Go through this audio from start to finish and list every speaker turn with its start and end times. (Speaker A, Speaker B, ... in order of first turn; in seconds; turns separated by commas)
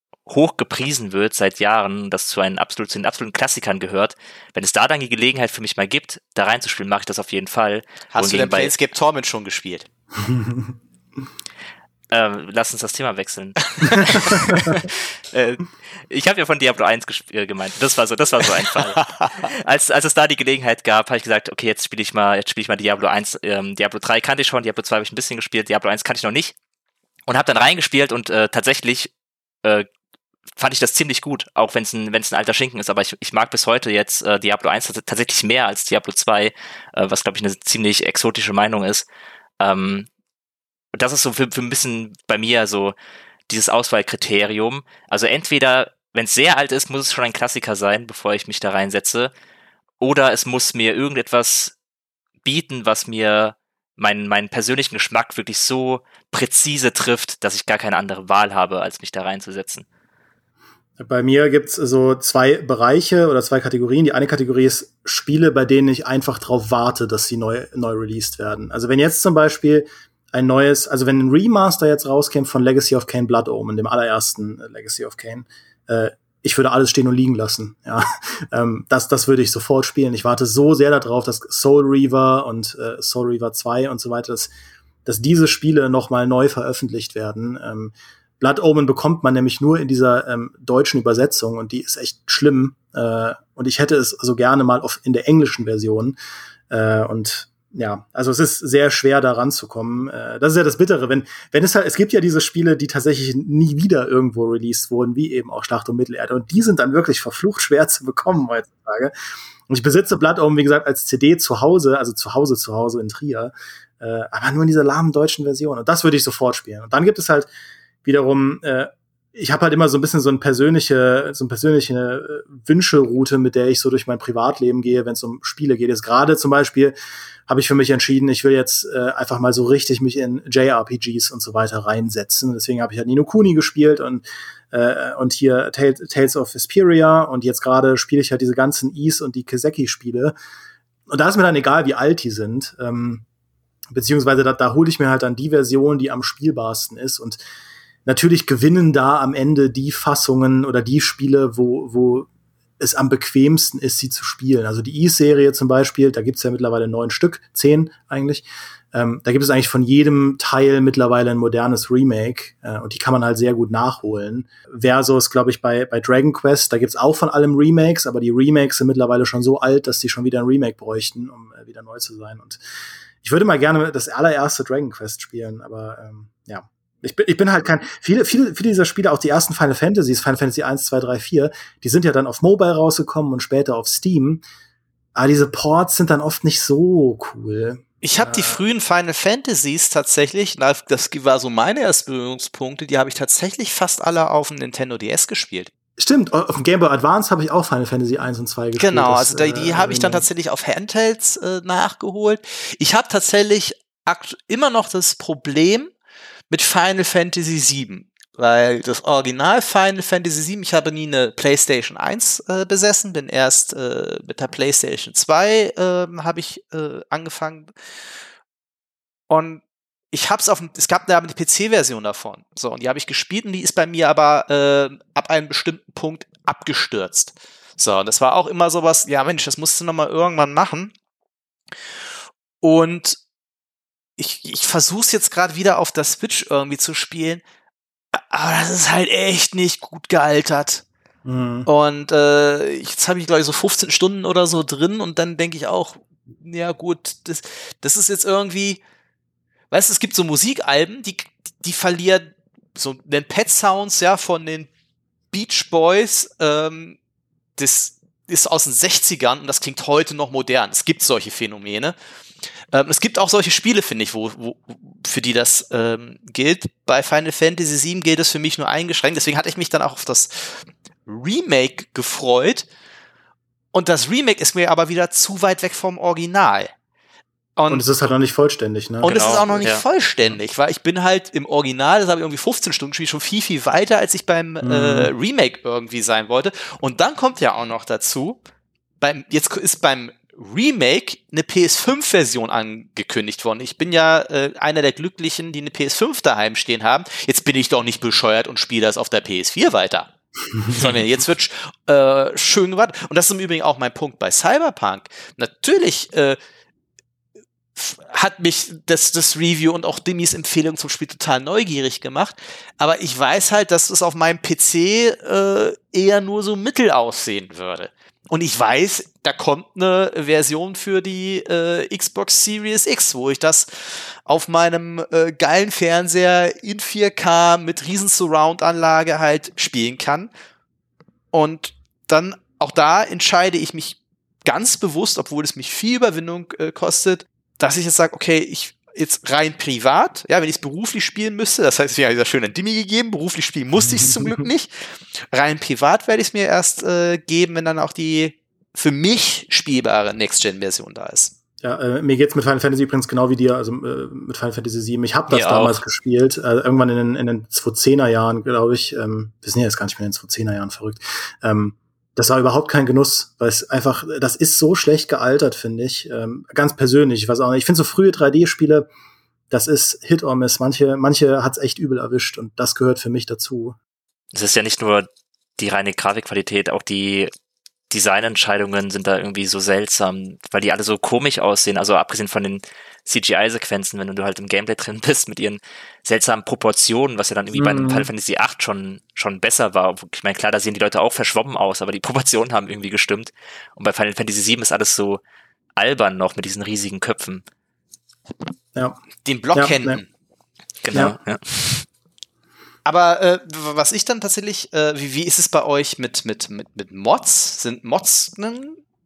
Speaker A: 0.3-8.7, Speaker B: 8.1-9.9, Speaker C: 10.2-10.7, Speaker A: 12.1-26.5, Speaker B: 13.8-14.1, Speaker C: 14.2-14.8, Speaker B: 19.0-19.4, Speaker A: 27.3-29.1, Speaker A: 30.6-39.1, Speaker A: 39.6-40.1, Speaker A: 40.9-43.0, Speaker A: 43.5-49.3, Speaker A: 50.0-51.7, Speaker A: 52.4-59.9, Speaker C: 61.0-84.5, Speaker C: 85.1-96.2, Speaker C: 96.7-109.1, Speaker C: 109.7-117.5, Speaker C: 118.0-127.0, Speaker C: 127.5-140.3, Speaker C: 141.1-143.2, Speaker C: 143.9-147.4, Speaker C: 148.1-152.3, Speaker C: 152.8-172.6, Speaker C: 173.2-184.4, Speaker C: 185.2-188.6, Speaker B: 188.0-195.7, Speaker C: 196.0-200.3, Speaker B: 198.8-205.9, Speaker B: 206.5-217.7, Speaker B: 219.3-230.9, Speaker B: 232.6-233.2, Speaker B: 234.2-237.4, Speaker B: 238.1-240.8, Speaker C: 241.3-241.7, Speaker B: 241.7-248.8, Speaker B: 249.7-254.7, Speaker B: 255.3-257.0, Speaker B: 257.6-261.9, Speaker B: 262.7-272.7, Speaker B: 273.7-276.7, Speaker B: 277.6-277.8, Speaker C: 277.7-279.7, Speaker B: 279.0-288.4, Speaker A: 279.1-279.8, Speaker C: 284.6-285.1, Speaker B: 289.0-300.1, Speaker B: 300.7-306.4, Speaker B: 307.8-330.3, Speaker B: 331.3-344.7, Speaker C: 343.8-344.5, Speaker B: 345.3-351.4, Speaker C: 351.6-368.9, Speaker A: 355.3-355.8, Speaker C: 369.5-373.8, Speaker A: 374.3-377.3, Speaker A: 377.9-395.2, Speaker C: 387.5-388.1, Speaker A: 395.8-397.4, Speaker B: 399.2-400.1, Speaker C: 399.6-400.0, Speaker A: 400.8-401.9, Speaker B: 402.9-408.8